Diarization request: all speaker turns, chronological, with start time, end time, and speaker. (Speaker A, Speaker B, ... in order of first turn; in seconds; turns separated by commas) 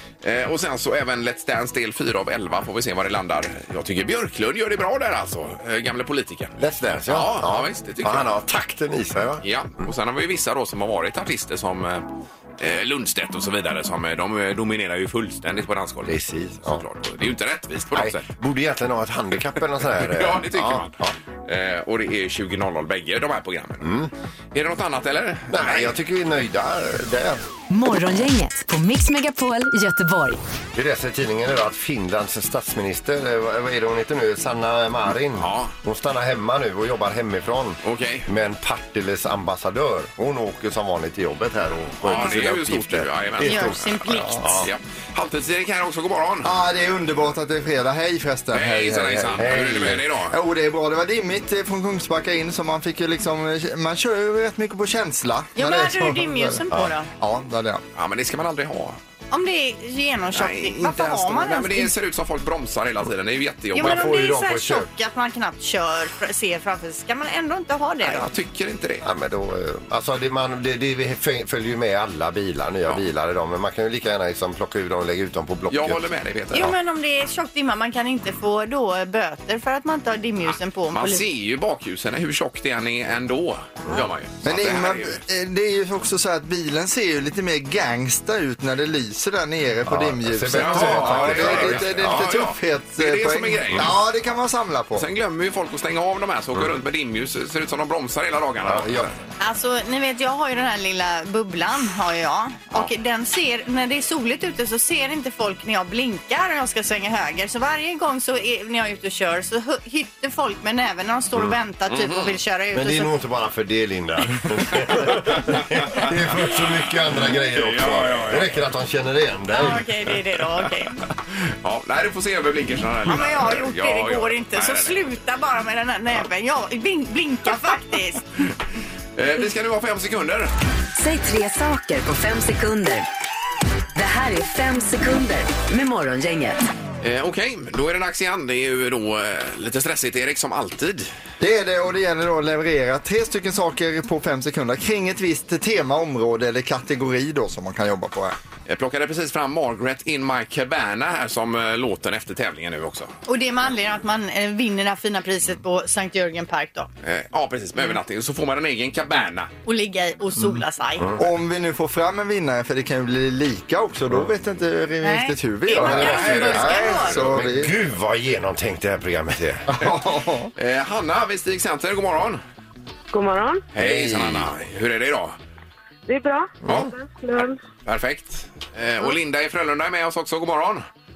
Speaker A: 0.2-6.6, Speaker B: 6.6-9.4, Speaker A: 7.1-8.3, Speaker A: 9.4-12.1, Speaker A: 12.6-18.2, Speaker B: 16.1-16.8, Speaker B: 17.9-21.2, Speaker A: 19.9-23.9, Speaker B: 23.8-24.1, Speaker A: 24.5-25.9, Speaker B: 25.5-27.4, Speaker C: 27.7-30.4, Speaker B: 30.8-43.8, Speaker A: 35.4-35.7, Speaker A: 37.8-38.3, Speaker A: 42.0-46.5, Speaker D: 43.4-44.7, Speaker B: 44.4-44.7, Speaker E: 46.4-49.5, Speaker A: 48.5-50.4, Speaker B: 49.3-50.0, Speaker E: 50.3-56.6, Speaker D: 55.6-57.1, Speaker E: 57.2-57.8, Speaker A: 58.0-59.0, Speaker D: 59.3-61.9, Speaker A: 60.3-64.1, Speaker D: 63.7-68.2, Speaker B: 63.8-64.9, Speaker A: 68.0-69.0, Speaker B: 69.0-76.0, Speaker A: 75.7-76.8, Speaker D: 76.5-81.2, Speaker A: 80.9-85.2, Speaker E: 84.4-95.0, Speaker B: 89.9-92.2, Speaker A: 90.5-94.0, Speaker A: 95.0-99.2, Speaker B: 98.6-99.1, Speaker D: 99.4-113.1, Speaker A: 111.9-112.4, Speaker B: 112.7-119.8, Speaker A: 115.4-116.1, Speaker A: 117.3-118.5, Speaker D: 119.5-121.0, Speaker A: 121.3-125.0, Speaker D: 123.1-128.3, Speaker A: 129.2-130.5, Speaker C: 131.0-133.1, Speaker C: 133.9-136.6, Speaker A: 137.0-141.1, Speaker E: 141.4-148.4, Speaker A: 148.7-153.1, Speaker D: 153.3-156.9, Speaker A: 157.0-159.5, Speaker D: 159.7-161.2, Speaker E: 161.2-167.7, Speaker D: 165.0-167.2, Speaker B: 165.8-169.7, Speaker E: 169.7-170.5, Speaker A: 170.6-172.4, Speaker F: 173.1-173.7, Speaker A: 173.7-175.4, Speaker B: 173.8-174.5, Speaker F: 176.1-177.6, Speaker A: 176.7-176.9, Speaker A: 177.9-180.8